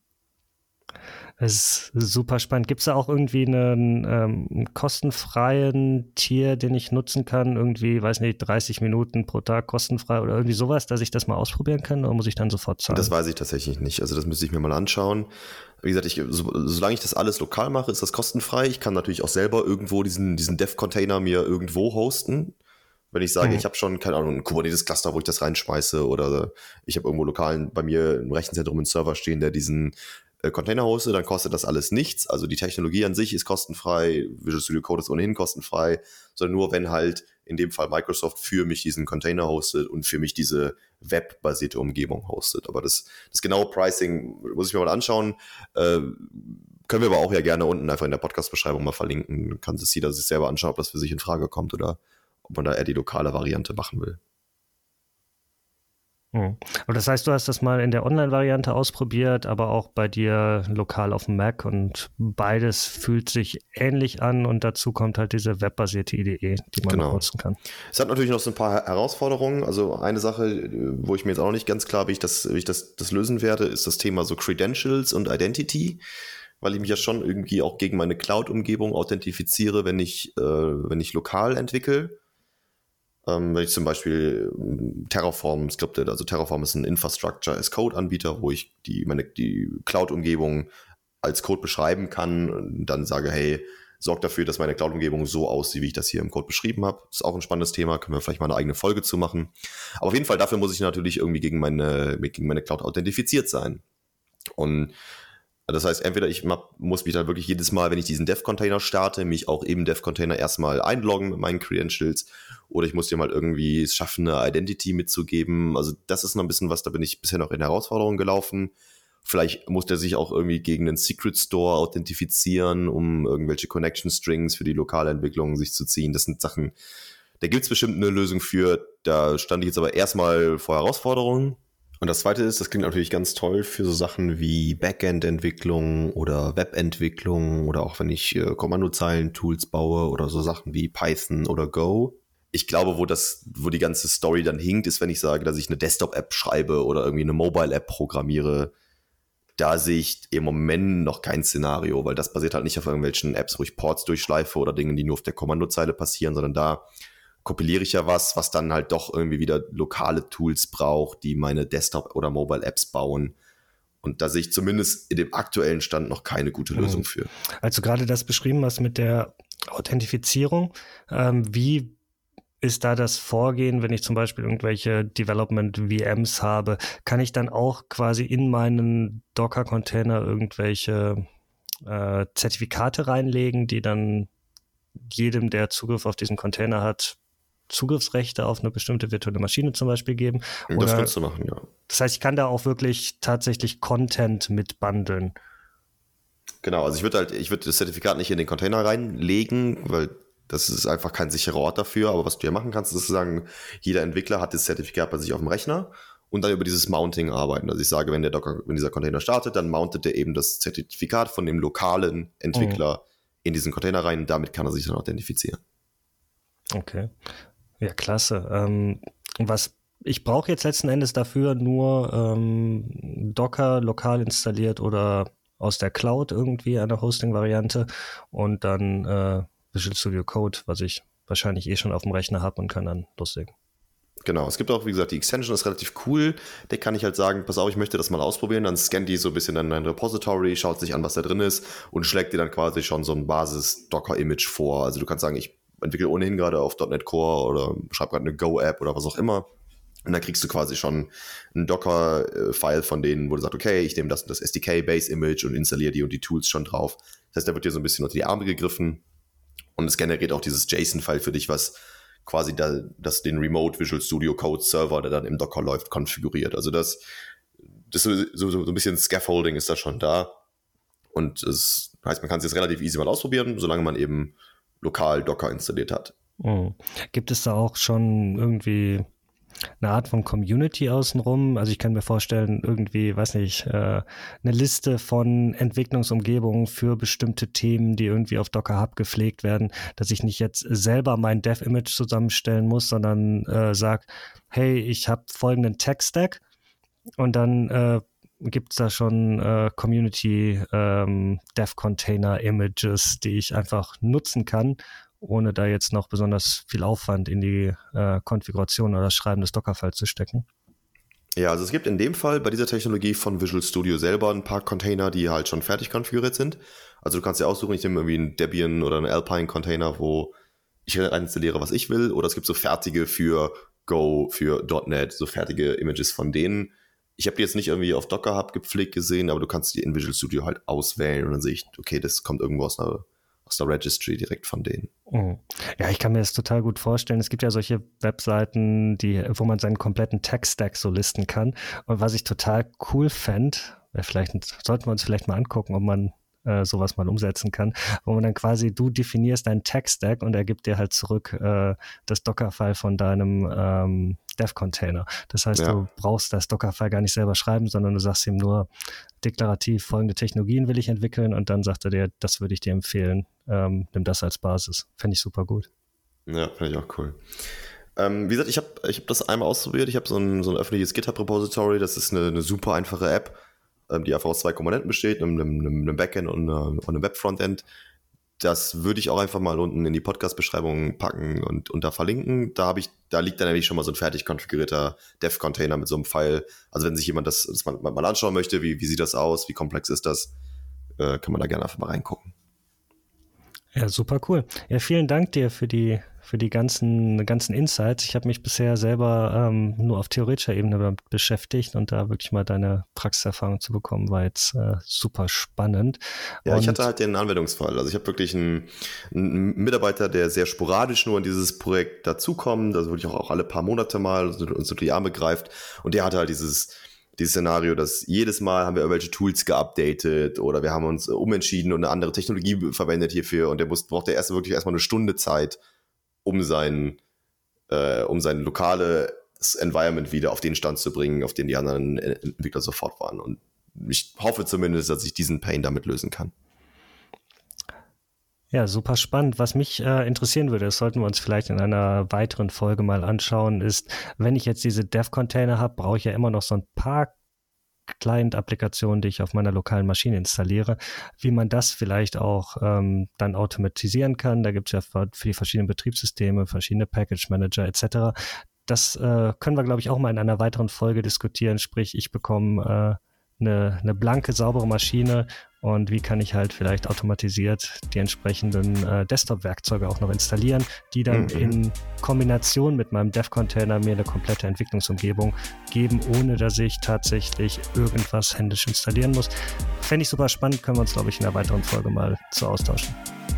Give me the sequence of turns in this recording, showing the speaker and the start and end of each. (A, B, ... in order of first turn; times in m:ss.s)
0:01.4-0:13.1 A
0:12.9-0:15.3 B
0:15.8-0:22.6 B
0:23.1-0:54.2 B
0:56.3-1:07.6 A
1:06.8-1:07.2 B
1:07.9-1:16.0 B
1:16.6-1:22.2 B
1:23.3-1:30.7 B
1:31.2-1:43.8 B
1:44.6-1:44.9 B
1:45.7-1:58.7 B
1:59.2-2:06.7 B
2:07.4-2:28.7 B
2:29.6-2:36.8 B
2:37.4-2:43.4 B
2:44.0-2:47.3 B
2:46.8-2:47.0 A
2:47.6-2:52.0 A
2:52.6-3:01.3 A
3:01.9-3:04.3 A
3:05.0-3:07.2 A
3:07.7-3:11.1 A
3:10.7-3:11.7 B
3:11.9-3:15.3 A
3:16.6-3:35.6 B
3:32.5-3:32.8 A
3:36.8-3:37.2 A
3:37.8-3:53.5 A
3:54.2-4:09.5 B
4:10.1-4:19.0 B
4:19.8-4:27.0 B
4:27.9-4:30.4 B
4:31.1-4:36.1 B
4:36.4-4:39.1 A
4:39.8-4:56.4 A
4:57.2-5:10.5 A
5:11.4-5:20.3 B
5:20.9-5:34.9 B
5:35.1-5:58.7 A
5:55.6-5:55.8 B
5:59.2-6:05.7 A
6:06.3-6:07.2 B
6:08.0-6:17.7 B
6:18.4-6:30.3 B
6:31.0-6:32.3 B
6:33.7-6:46.8 A
6:46.5-7:05.6 B
7:06.2-7:07.0 B
7:07.7-7:16.3 B
7:18.5-7:27.1 A
7:28.0-7:38.1 A
7:38.7-8:03.0 A
7:51.1-7:51.6 B